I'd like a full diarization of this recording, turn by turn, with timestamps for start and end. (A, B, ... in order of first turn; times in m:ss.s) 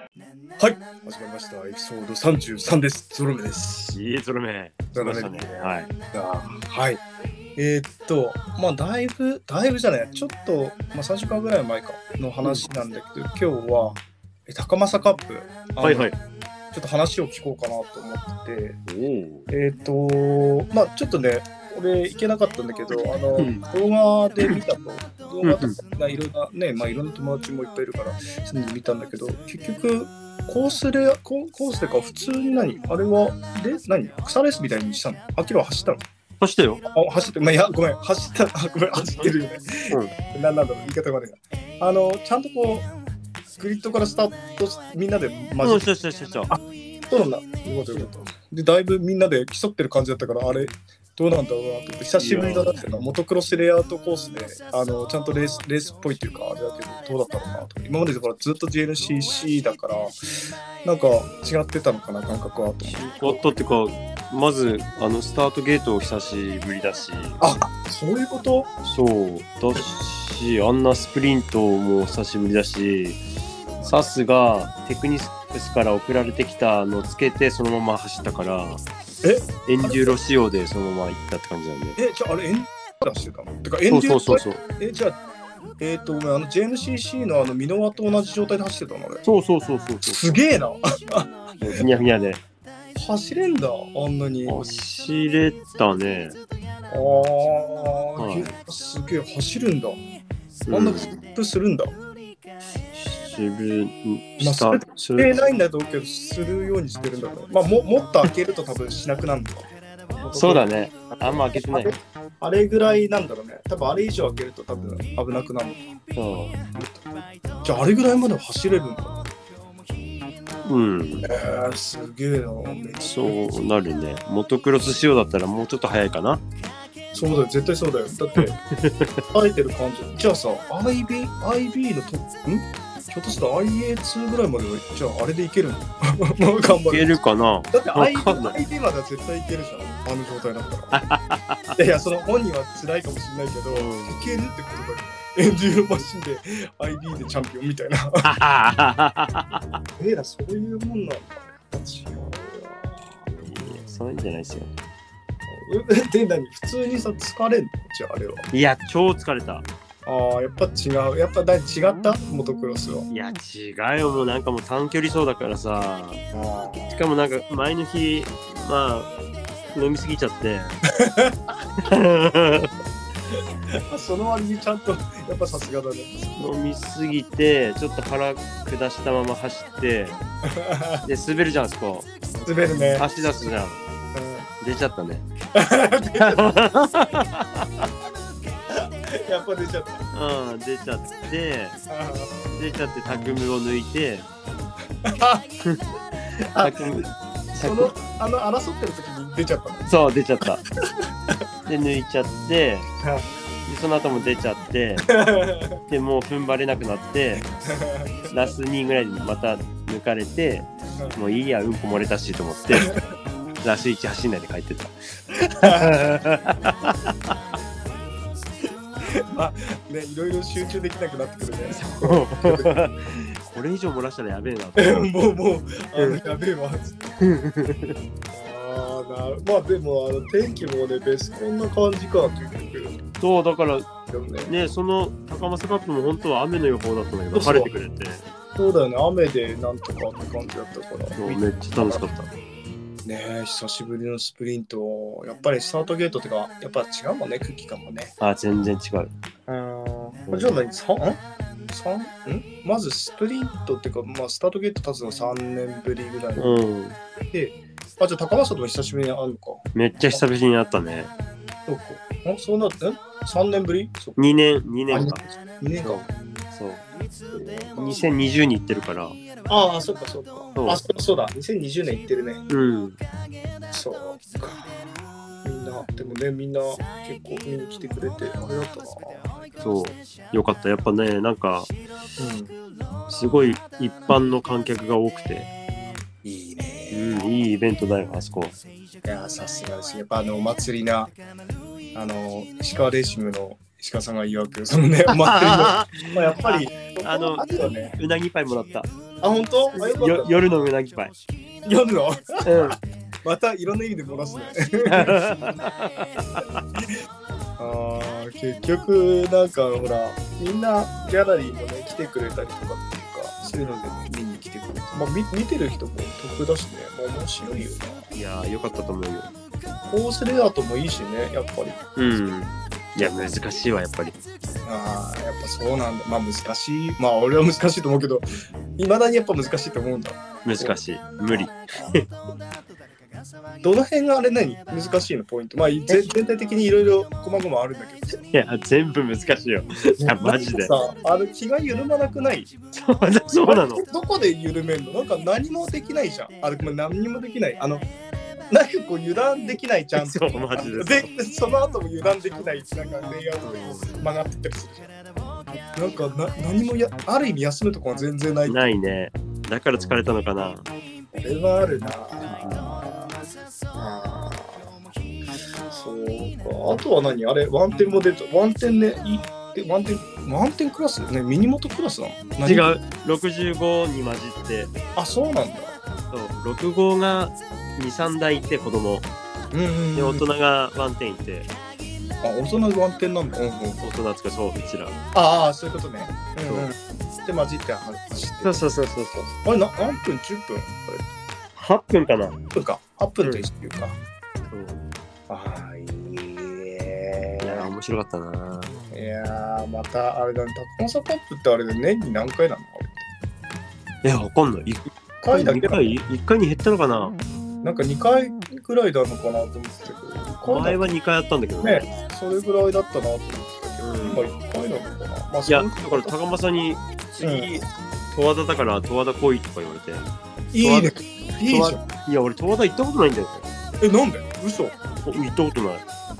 0:00.6-0:04.0 A
0:03.9-0:05.9 B
0:04.9-0:07.0 A
0:07.6-0:16.1 A
0:15.8-0:16.1 B
0:16.7-0:18.8 A
0:18.9-0:19.5 B
0:19.5-0:36.0 A
0:23.4-0:23.6 B
0:25.4-0:25.8 B
0:36.4-0:36.8 B
0:36.8-0:42.9 A
0:43.6-0:45.9 A
0:45.6-0:46.5 B
0:46.5-1:03.5 A
0:52.2-0:52.8 B
1:02.8-1:07.4 B
1:07.4-1:08.7 A
1:08.8-1:13.2 B
1:13.8-1:14.1 A
1:13.8-1:18.8 B
1:19.2-1:20.2 A
1:19.6-1:22.0 B
1:22.0-1:25.2 A
1:23.9-1:24.6 B
1:25.8-1:29.2 A
1:29.2-1:30.4 B
1:30.0-1:31.7 A
1:31.6-1:32.4 B
1:32.9-1:34.6 A
1:34.4-1:36.4 B
1:36.9-1:40.0 A
1:38.2-1:38.6 B
1:40.6-1:41.2 B
1:40.7-1:41.9 A
1:42.9-1:45.3 B
1:44.4-1:49.7 A
1:50.2-1:55.9 A
1:50.3-1:51.9 B
1:56.2-1:56.6 B
1:56.7-1:57.1 A
1:57.6-1:59.2 A
2:00.6-2:01.3 B
2:01.2-2:03.4 A
2:03.0-2:06.4 B
2:07.1-2:08.6 A
2:08.4-2:09.2 B
2:09.3-2:17.2 A
2:16.7-2:18.6 B
2:17.7-2:21.0 A
2:20.9-2:21.8 B
2:21.8-2:28.3 A
2:23.7-2:24.4 B
2:28.2-2:29.8 B
2:30.0-2:33.3 A
2:33.3-2:34.7 B
2:35.5-2:38.5 A
2:38.5-2:39.6 B
2:40.0-2:43.1 A
2:43.1-2:46.2 B
2:46.3-2:46.9 A
2:46.9-2:49.1 B
2:49.7-2:50.8 B
2:51.0-2:51.5 A
2:51.8-2:52.7 B
2:53.9-2:56.5 A
2:56.4-3:00.2 B
3:00.4-3:01.0 A
3:01.0-3:02.1 B
3:02.4-3:03.6 A
3:02.7-3:03.8 B
3:04.1-3:04.5 A
3:04.6-3:05.2 B
3:05.5-3:06.4 A
3:06.2-3:07.9 B
3:08.7-3:10.0 A
3:10.1-3:11.8 B
3:11.9-3:12.3 A
3:12.5-3:14.3 B
3:15.0-3:15.4 A
3:16.6-3:19.8 A
3:16.6-3:17.9 B
3:19.8-3:20.6 B
3:21.6-3:22.9 B
3:23.0-3:23.3 A
3:23.6-3:25.1 B
3:25.0-3:25.8 A
3:25.9-3:27.4 B
3:27.6-3:28.5 A
3:28.3-3:32.9 B
3:31.0-3:31.2 A
3:32.7-3:33.0 A
3:33.6-3:35.0 B
3:35.6-3:36.2 A
3:35.6-3:37.3 B
3:39.1-3:42.8 A
3:41.7-3:45.1 B
3:44.8-3:47.0 A
3:45.9-3:46.2 B
3:47.2-3:48.0 B
3:48.3-3:53.0 A
3:53.2-3:53.9 B
3:54.1-3:54.5 A
3:54.4-3:58.2 B
3:57.3-3:57.7 A
3:58.6-4:02.0 A
4:01.2-4:02.3 B
4:03.0-4:08.1 A
4:08.2-4:09.1 B
4:09.5-4:16.6 A
4:10.3-4:10.6 B
4:16.4-4:17.0 B
4:17.3-4:20.2 A
4:19.7-4:21.1 B
4:21.6-4:26.1 A
4:24.2-4:25.2 B
4:25.8-4:26.8 B
4:27.3-4:28.0 A
4:27.8-4:29.2 B
4:29.4-4:32.4 A
4:30.6-4:30.8 B
4:32.5-4:33.0 B
4:33.7-4:39.3 A
4:39.6-4:41.7 B
4:42.2-4:42.6 A
4:43.1-4:45.5 B
4:46.2-4:47.2 A
4:46.9-4:48.6 B
4:49.0-4:51.1 A
4:51.9-4:58.0 A
4:55.1-4:58.9 B
4:59.2-5:00.4 A
4:59.7-5:01.1 B
5:01.6-5:05.2 A
5:02.4-5:02.8 B
5:04.9-5:06.6 B
5:07.6-5:18.1 A
5:18.1-5:19.3 B
5:19.8-5:21.9 A
5:22.0-5:24.2 B
5:23.0-5:23.3 A
5:24.6-5:30.8 A
5:30.4-5:32.0 B
5:33.6-5:38.2 A
5:38.3-5:40.8 B
5:40.0-5:42.5 A
5:42.7-5:43.8 B
5:43.3-5:47.9 A
5:48.5-5:54.9 A
5:49.9-5:51.1 B
5:53.4-5:54.0 B
5:55.7-5:58.6 A
5:58.4-6:00.7 B
6:01.1-6:03.2 A
6:02.4-6:02.7 B
6:03.7-6:04.7 A
6:05.7-6:12.7 A
6:12.4-6:14.7 B
6:15.0-6:15.7 A
6:16.1-6:19.1 B
6:19.5-6:20.2 A
6:19.9-6:21.5 B
6:22.2-6:23.8 A
6:23.8-6:25.0 B
6:25.1-6:28.6 A
6:26.5-6:26.7 B
6:28.4-6:29.3 B
6:29.4-6:31.0 A
6:31.6-6:32.4 B
6:32.5-6:34.0 A
6:34.5-6:34.8 B
6:35.3-6:37.7 A
6:37.4-6:38.8 B
6:38.9-6:43.1 A
6:44.0-6:47.2 B
6:45.2-6:46.0 A
6:47.6-6:50.9 A
6:50.4-6:51.9 B
6:51.6-6:56.1 A
6:53.8-6:54.3 B
6:55.5-7:00.0 B
6:57.2-6:57.6 A
7:00.5-7:01.8 A
7:00.6-7:03.5 B
7:03.8-7:04.8 A
7:05.0-7:05.8 B